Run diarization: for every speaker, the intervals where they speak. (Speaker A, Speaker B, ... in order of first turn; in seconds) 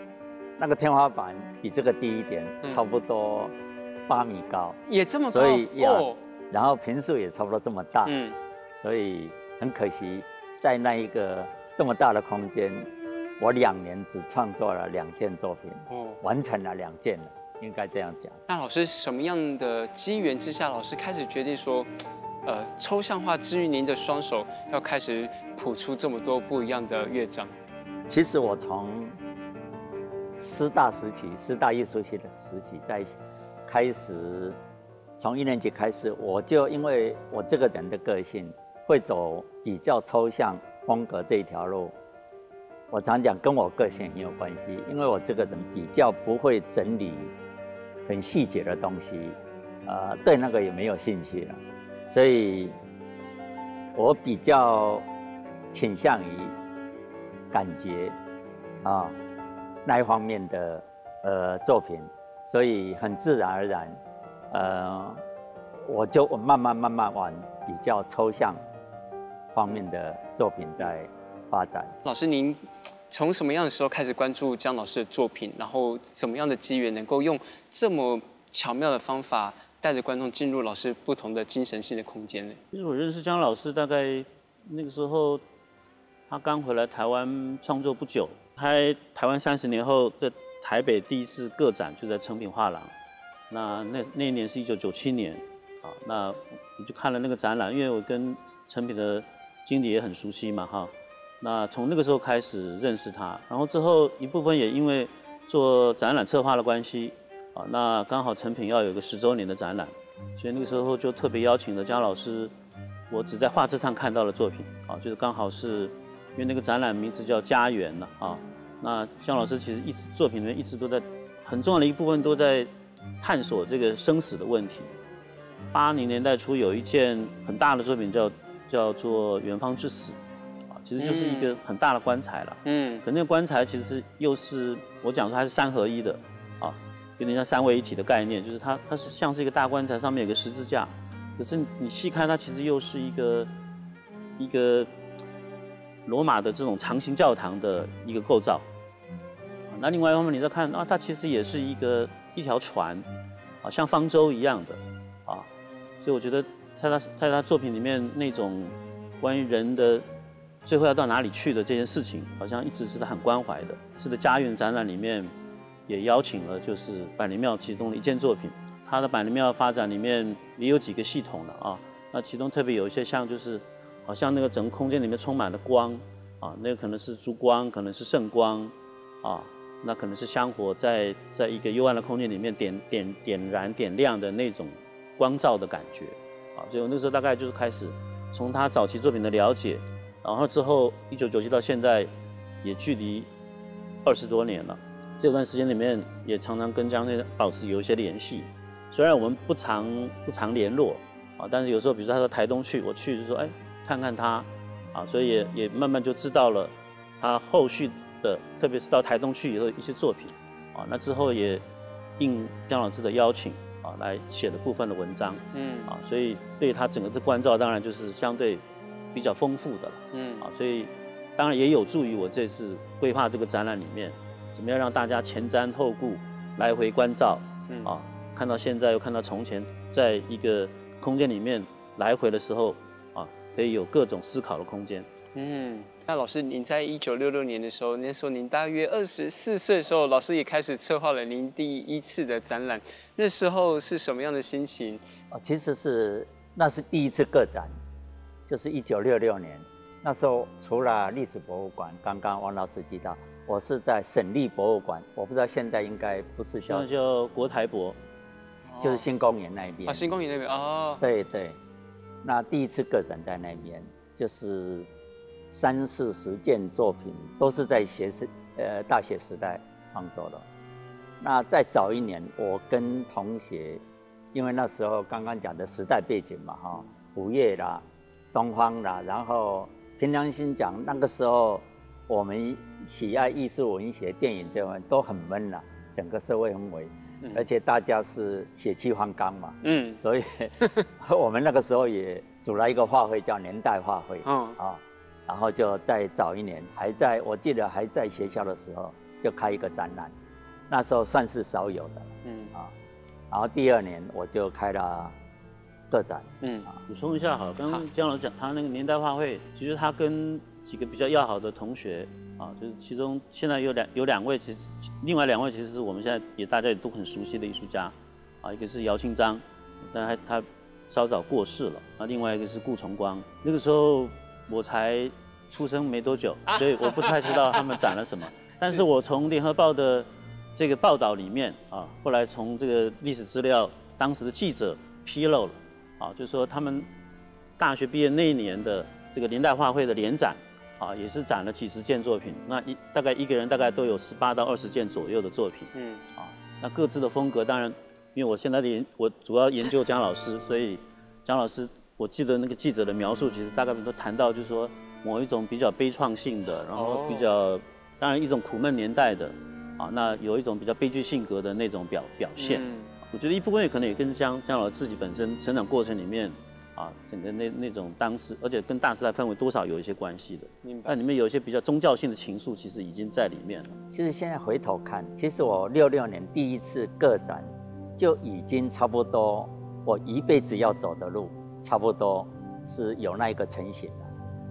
Speaker A: 0.6-3.5, 4.1-8.2, 8.7-18.4, 28.1-29.1, 30.4-34.6, 35.2-41.9, 42.9-47.3, 48.0-52.7, 53.9-55.0, 55.7-56.5, 57.5-58.1, 58.8-59.2, 59.9-64.0, 64.5-65.2, 65.8-68.6, 69.5-71.9, 245.3-247.7, 248.5-256.9, 258.8-260.0, 261.0-261.6, 262.2-264.9, 265.5-270.4, 271.2-273.8, 274.3-300.1, 300.7-302.7, 303.3-305.1, 305.9-306.8, 373.9-384.1
Speaker B: 4.9-6.2, 8.0-8.4, 15.9-16.2, 18.5-21.9, 22.4-27.5, 72.0-82.6, 131.0-131.6, 132.6-133.0, 215.5-215.9, 220.1-220.5, 235.3-245.0, 258.7-259.1, 259.9-261.0, 287.2-287.5, 289.6-290.0, 290.6-290.9, 294.2-294.6, 302.2-302.5, 306.4-306.7, 326.5-327.8, 345.7-346.0, 356.7-357.3, 362.4-362.9, 370.6-370.9
Speaker C: 82.7-85.4, 86.3-92.9, 93.5-112.5, 113.1-122.7, 123.2-124.9, 125.7-130.2, 130.7-143.5, 144.4-144.9, 146.1-148.6, 149.7-153.0, 153.6-155.5, 156.0-160.0, 160.6-165.3, 165.9-192.1, 192.6-193.3, 194.0-211.6, 212.2-235.1, 256.6-258.0, 306.9-336.9, 337.6-373.7